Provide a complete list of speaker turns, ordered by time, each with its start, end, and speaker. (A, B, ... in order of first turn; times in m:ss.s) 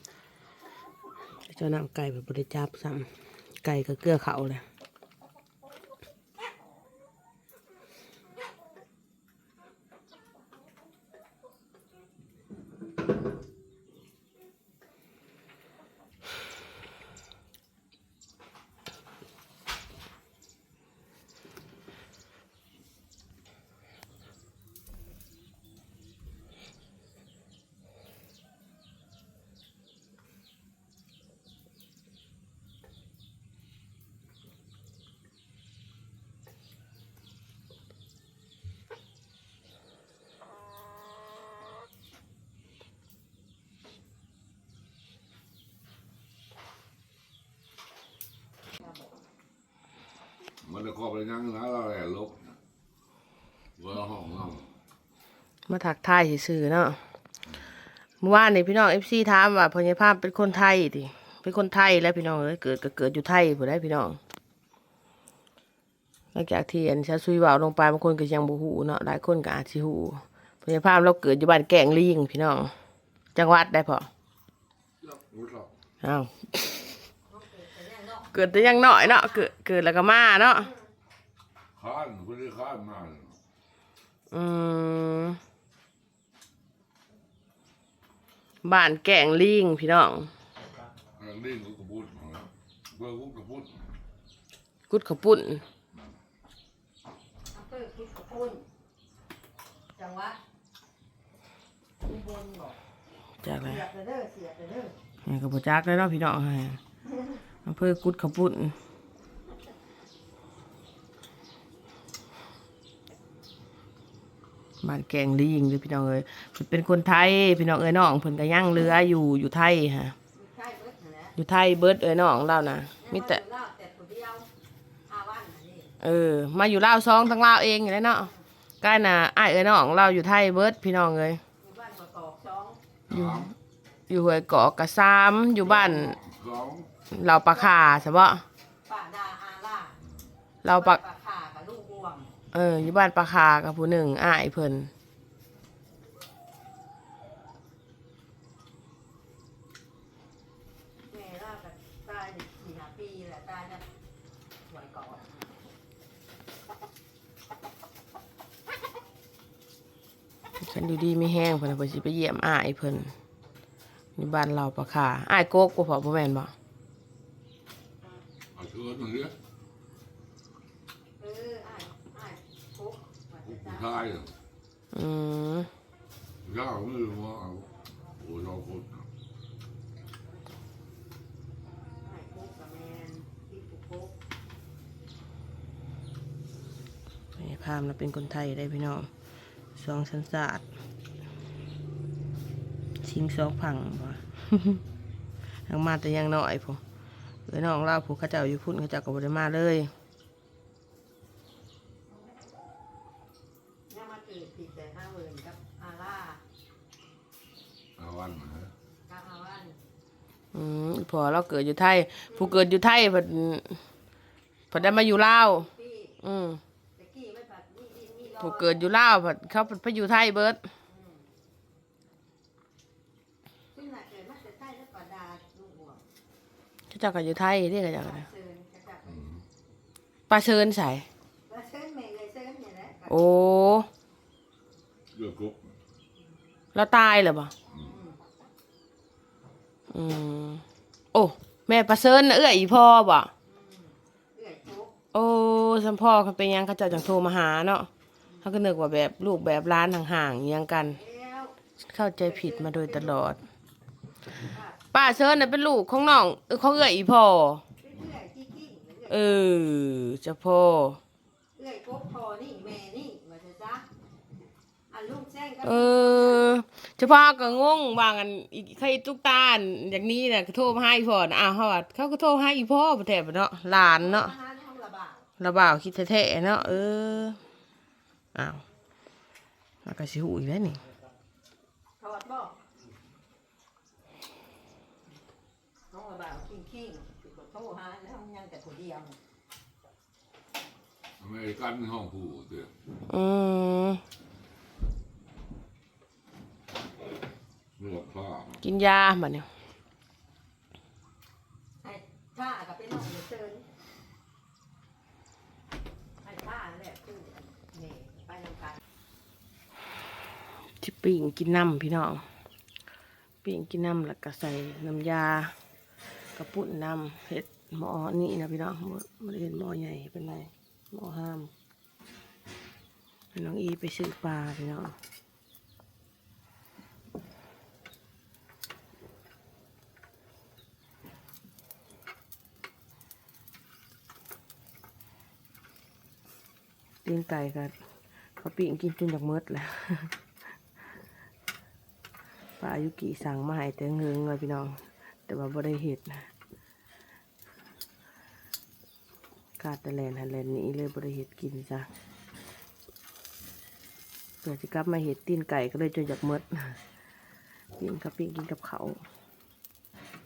0:01.4-0:03.1 A
0:03.6-0:04.6 A
0:50.6-0:52.6 B
0:53.8-0:54.7 B
0:55.7-0:57.0 A
0:58.2-1:04.2 A
1:06.3-1:12.7 A
1:13.3-1:14.1 A
1:15.0-1:15.7 B
1:16.0-1:16.6 A
1:17.3-1:19.5 C
1:18.3-1:20.7 A
1:21.8-1:23.4 B
1:24.3-1:25.4 A
1:28.6-1:30.3 A
1:31.2-1:33.8 B
1:34.9-1:35.6 A
1:37.5-1:38.6 C
1:40.0-1:40.4 C
1:42.0-1:42.8 C
1:43.4-1:43.8 A
1:43.6-1:44.9 C
1:45.2-1:46.8 A
1:47.6-1:48.8 A
1:54.8-2:00.2 A
2:00.3-2:01.4 C
2:01.4-2:03.4 A
2:03.0-2:04.5 C
2:05.1-2:05.9 C
2:06.0-2:08.3 A
2:08.8-2:11.4 A
2:11.6-2:12.8 C
2:13.1-2:13.5 B
2:13.1-2:13.5 A
2:14.1-2:16.2 A
2:15.7-2:16.9 B
2:17.1-2:18.4 A
2:17.4-2:18.1 C
2:18.8-2:20.0 C
2:20.6-2:21.0 A
2:20.7-2:22.3 C
2:22.5-2:24.9 A
2:31.1-2:33.8 C
2:34.7-2:35.5 C
2:40.6-2:43.1 A
2:44.2-2:46.5 A
2:48.5-2:49.4 B
2:51.2-2:54.1 C
2:53.4-2:54.3 B
2:54.9-2:55.7 A
2:56.4-2:59.0 B
3:02.0-3:04.1 C
3:07.4-3:09.1 A
3:09.7-3:10.6 A
3:13.0-3:14.8 A
3:15.7-3:16.8 A
3:17.5-3:19.9 A
3:23.9-3:26.4 C
3:28.0-3:28.7 B
3:29.0-3:29.8 C
3:30.5-3:33.8 A
3:32.3-3:32.6 C
3:34.7-3:35.7 A
3:34.7-3:36.2 C
3:36.2-3:36.6 A
3:37.0-3:38.9 C
3:38.4-3:40.6 A
3:40.9-3:41.2 C
3:43.7-3:46.0 C
3:46.9-3:48.2 A
3:48.0-3:49.2 C
3:49.1-3:49.4 B
3:50.3-3:51.1 A
3:51.5-3:53.2 C
3:53.1-3:53.9 A
3:55.1-3:55.6 B
3:56.7-3:57.5 A
3:57.8-3:58.2 C
3:59.9-4:00.6 A
4:01.1-4:03.3 A
4:03.4-4:05.0 C
4:05.1-4:07.9 A
4:08.4-4:11.0 A
4:10.9-4:11.6 C
4:11.9-4:13.4 A
4:12.2-4:13.2 C
4:14.4-4:15.2 C
4:14.9-4:17.6 A
4:17.8-4:19.5 C
4:19.1-4:21.0 A
4:21.6-4:23.8 C
4:24.9-4:26.6 C
4:25.6-4:34.3 A
4:33.7-4:35.3 C
4:35.4-4:37.4 A
4:38.3-4:38.6 A
4:39.8-4:40.8 A
4:42.0-4:42.6 C
4:45.9-4:49.2 C
4:51.2-4:52.7 B
4:53.1-4:54.0 A
4:57.8-4:58.6 B
4:58.6-4:59.5 A
5:01.8-5:03.6 C
5:06.2-5:08.8 C
5:10.8-5:12.2 A
5:13.4-5:15.5 A
5:16.3-5:21.5 A
5:23.3-5:24.9 A
5:37.0-5:37.7 A
5:38.4-5:40.1 A
5:42.6-5:46.3 A
5:49.6-5:51.9 A
5:54.4-5:56.8 A
5:57.8-5:59.0 A